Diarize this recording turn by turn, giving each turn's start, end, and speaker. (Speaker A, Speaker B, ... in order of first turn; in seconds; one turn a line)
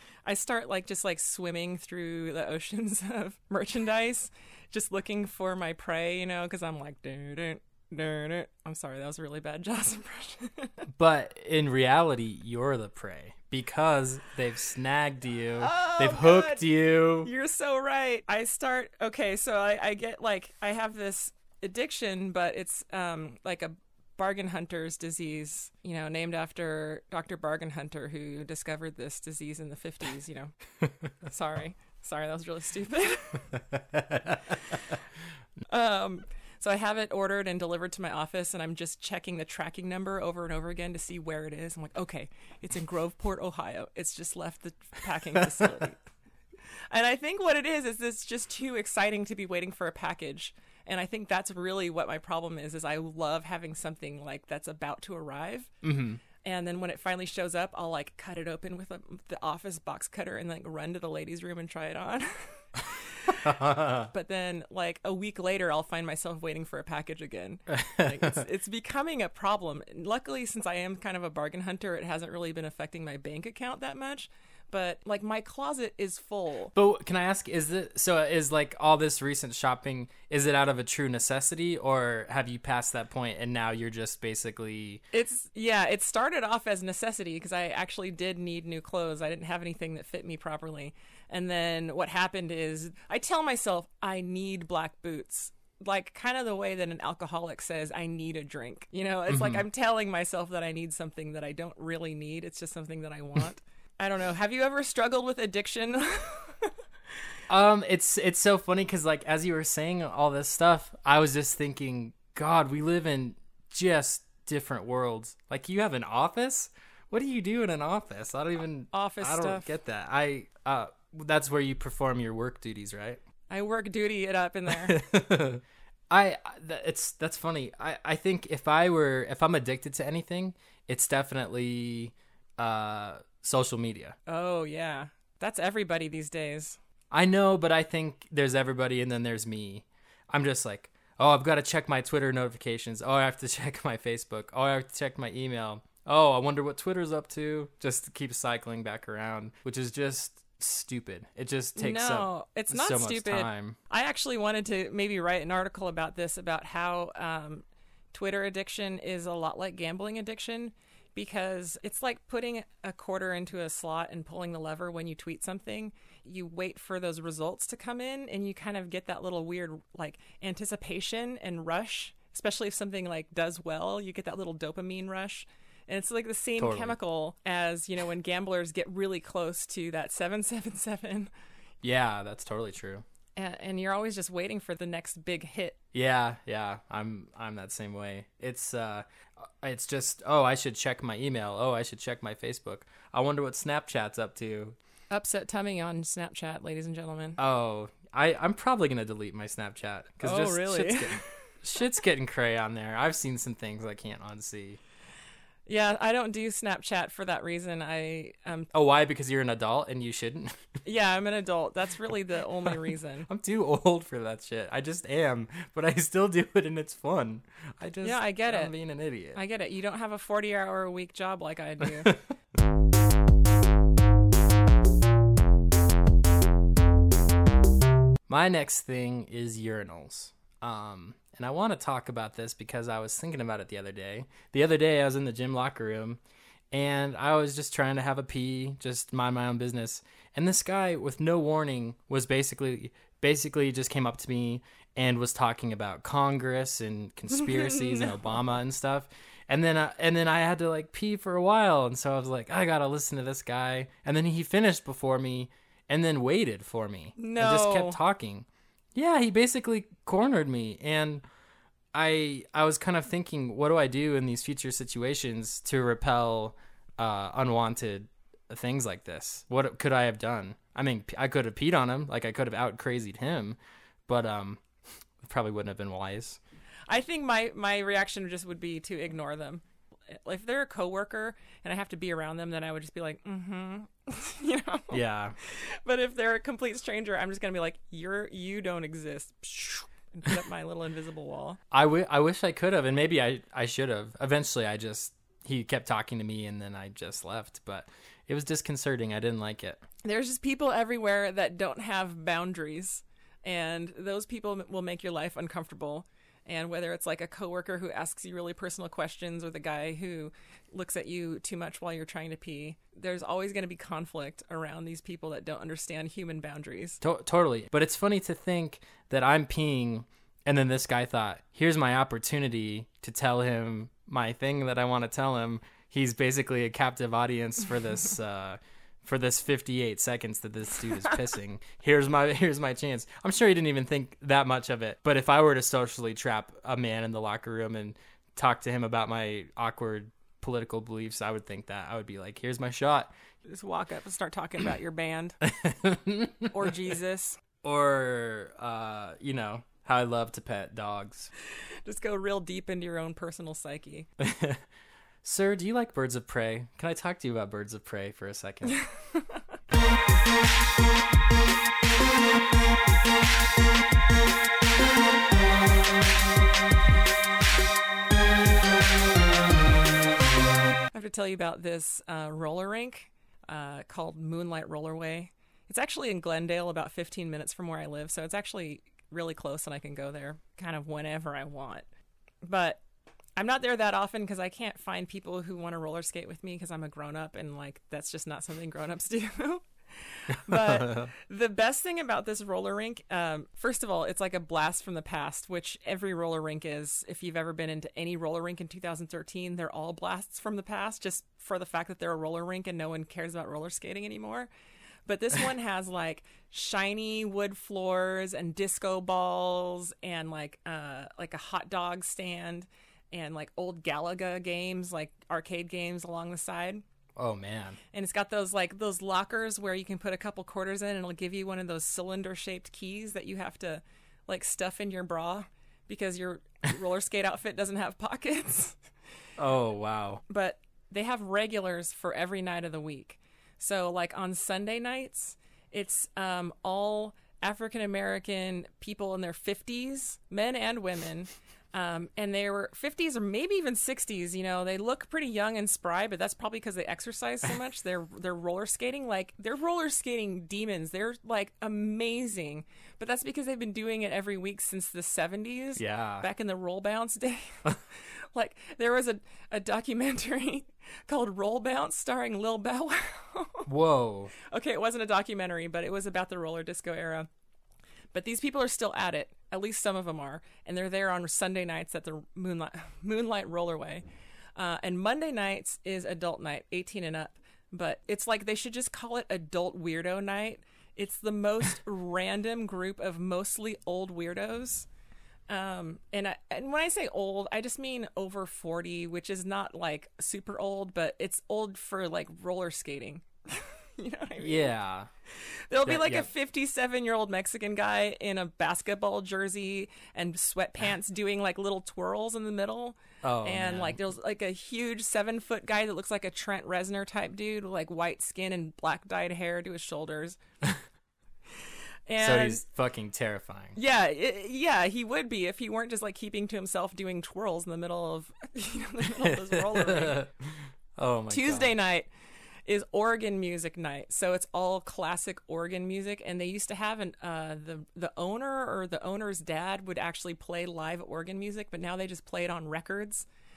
Speaker A: 0.2-10.8
Speaker B: 10.9-17.3
Speaker A: 15.6-16.7
Speaker A: 17.2-30.6
Speaker A: 31.2-33.5
Speaker B: 33.5-35.0
Speaker A: 35.7-46.0
Speaker A: 46.9-55.7
Speaker B: 55.8-56.2
Speaker A: 56.4-76.7
Speaker B: 63.4-64.1
Speaker B: 67.7-68.4
Speaker B: 76.7-85.0
Speaker A: 85.1-106.7
Speaker B: 99.3-99.6
Speaker B: 107.5-123.2
Speaker A: 118.9-119.7
Speaker A: 123.5-125.0
Speaker B: 124.7-134.1
Speaker A: 134.3-136.8
Speaker B: 137.1-153.8
Speaker A: 151.8-181.3
Speaker B: 176.6-176.9
Speaker B: 181.8-183.0
Speaker A: 183.3-185.8
Speaker B: 185.9-194.8
Speaker A: 195.1-197.4
Speaker B: 197.4-204.8
Speaker A: 200.2-201.3
Speaker A: 205.7-208.7
Speaker B: 208.7-210.7
Speaker A: 210.8-213.3
Speaker B: 213.3-219.4
Speaker A: 218.0-218.7
Speaker A: 219.3-222.2
Speaker B: 228.3-236.2
Speaker B: 236.7-261.2
Speaker A: 247.3-248.1
Speaker A: 257.2-258.0
Speaker B: 261.9-274.6
Speaker B: 275.2-276.4
Speaker A: 276.9-291.6
Speaker B: 284.9-285.4
Speaker B: 291.7-299.8
Speaker A: 300.0-317.0
Speaker B: 317.0-343.1
Speaker A: 343.4-345.4
Speaker B: 345.4-346.7
Speaker A: 346.5-347.4
Speaker B: 347.6-351.3
Speaker A: 351.8-354.1
Speaker B: 354.2-354.6
Speaker B: 355.2-358.8
Speaker A: 358.7-359.4
Speaker A: 370.9-381.8
Speaker A: 382.4-382.8
Speaker A: 383.4-404.5
Speaker B: 390.4-391.1
Speaker A: 405.1-416.8
Speaker B: 417.1-417.8
Speaker A: 417.9-428.8
Speaker B: 429.4-430.2
Speaker A: 430.3-463.7
Speaker B: 455.8-456.3
Speaker B: 463.7-464.3
Speaker A: 464.4-467.3
Speaker A: 468.1-474.0
Speaker A: 474.6-484.9
Speaker A: 485.5-494.7
Speaker B: 494.4-495.1
Speaker A: 495.4-510.4
Speaker B: 495.8-496.3
Speaker B: 503.2-504.0
Speaker A: 512.1-512.6
Speaker B: 512.2-513.8
Speaker A: 513.8-520.2
Speaker B: 519.2-521.7
Speaker A: 521.3-522.1
Speaker A: 522.6-533.3